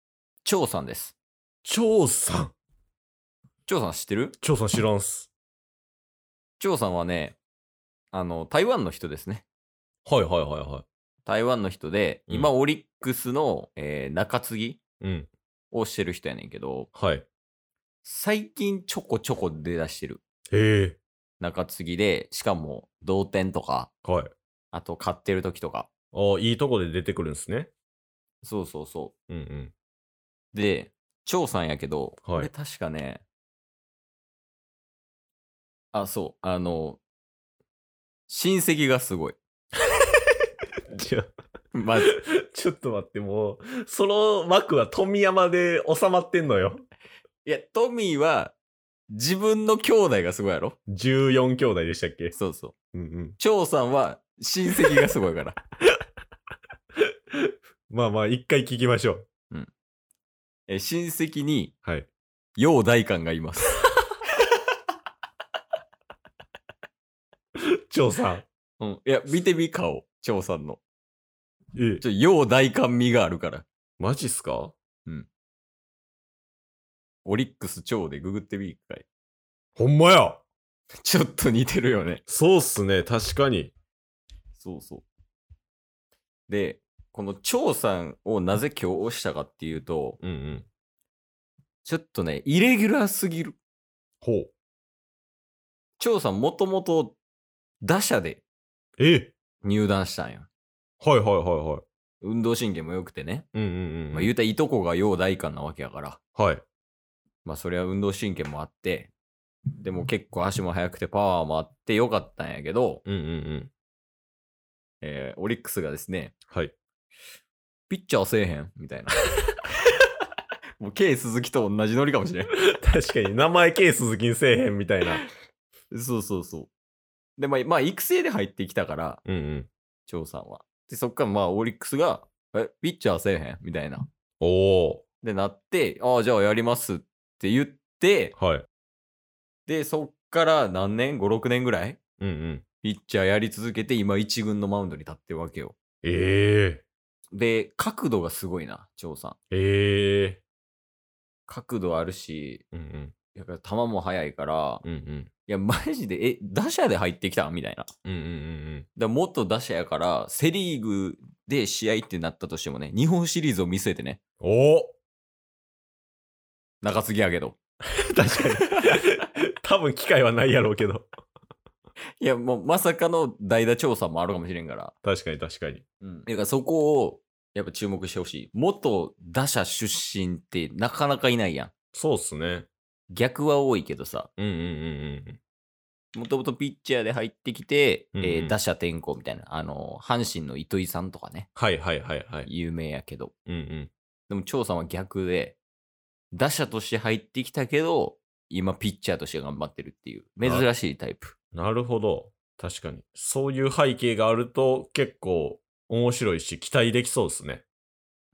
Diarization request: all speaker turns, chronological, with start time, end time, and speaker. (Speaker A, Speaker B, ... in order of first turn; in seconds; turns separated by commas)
Speaker A: 0.4-1.1, Speaker B: 1.6-2.5, Speaker A: 3.6-4.4, Speaker B: 4.4-5.3, Speaker A: 6.6-7.4, Speaker A: 8.1-9.4, Speaker B: 10.1-10.8, Speaker A: 11.2-14.8, Speaker B: 15.0-15.3, Speaker A: 15.7-16.9, Speaker B: 16.9-17.2, Speaker A: 18.0-20.2, Speaker B: 20.5-21.0, Speaker A: 21.4-23.9, Speaker B: 24.0-24.3, Speaker A: 24.7-25.9, Speaker B: 26.1-27.7, Speaker A: 28.4-29.1, Speaker B: 29.3-29.7, Speaker A: 30.5-33.2, Speaker A: 35.9-37.0, Speaker A: 38.3-39.4, Speaker B: 40.9-41.3, Speaker A: 41.7-42.1, Speaker B: 42.1-46.8, Speaker A: 47.4-48.5, Speaker A: 49.1-50.8, Speaker B: 50.9-52.3, Speaker A: 52.3-52.7, Speaker B: 52.9-53.4, Speaker A: 53.4-55.6, Speaker B: 57.3-59.2, Speaker A: 60.7-61.8, Speaker A: 62.6-63.8, Speaker B: 67.9-68.4, Speaker A: 68.8-70.8, Speaker B: 71.8-72.0, Speaker A: 72.0-73.7, Speaker B: 74.0-74.7, Speaker A: 77.2-79.0, Speaker B: 79.8-80.4, Speaker A: 81.0-82.2, Speaker B: 82.3-83.7, Speaker A: 84.5-85.0, Speaker A: 86.5-90.2, Speaker B: 90.2-90.7, Speaker A: 91.8-93.6, Speaker B: 94.2-94.5, Speaker A: 96.0-97.2, Speaker A: 97.8-98.4, Speaker B: 99.0-99.3, Speaker A: 99.6-100.5, Speaker B: 101.0-101.8, Speaker A: 102.2-103.5, Speaker B: 103.5-104.3, Speaker A: 104.1-106.2, Speaker B: 106.3-106.6, Speaker A: 107.4-109.1, Speaker A: 109.8-113.0, Speaker B: 113.0-113.7, Speaker A: 115.0-116.3, Speaker A: 117.9-119.2, Speaker A: 120.8-122.5, Speaker B: 122.5-125.2, Speaker A: 125.9-126.7, Speaker A: 127.4-129.2, Speaker B: 129.2-129.7, Speaker A: 130.1-134.1, Speaker B: 134.4-135.0, Speaker A: 135.2-138.3, Speaker B: 138.4-138.7, Speaker A: 139.7-142.0, Speaker B: 142.2-142.6, Speaker A: 142.8-145.8, Speaker B: 146.0-146.8, Speaker A: 147.3-149.4, Speaker B: 149.5-150.4, Speaker A: 151.5-152.6, Speaker B: 152.7-153.1, Speaker A: 153.3-154.8, Speaker B: 154.8-155.3, Speaker A: 155.5-157.9, Speaker B: 158.1-158.9, Speaker A: 158.9-164.2, Speaker B: 164.4-164.9, Speaker A: 166.8-167.6, Speaker B: 168.0-171.1, Speaker A: 168.6-168.9, Speaker A: 172.2-174.9, Speaker B: 175.0-175.8, Speaker A: 176.0-181.7, Speaker B: 181.9-182.7, Speaker A: 183.1-184.3, Speaker B: 184.4-185.4, Speaker A: 186.1-191.5, Speaker B: 188.2-188.5, Speaker B: 191.6-192.5, Speaker A: 192.4-193.3, Speaker B: 193.5-193.9, Speaker A: 194.3-195.6, Speaker A: 196.3-201.3, Speaker B: 201.5-207.6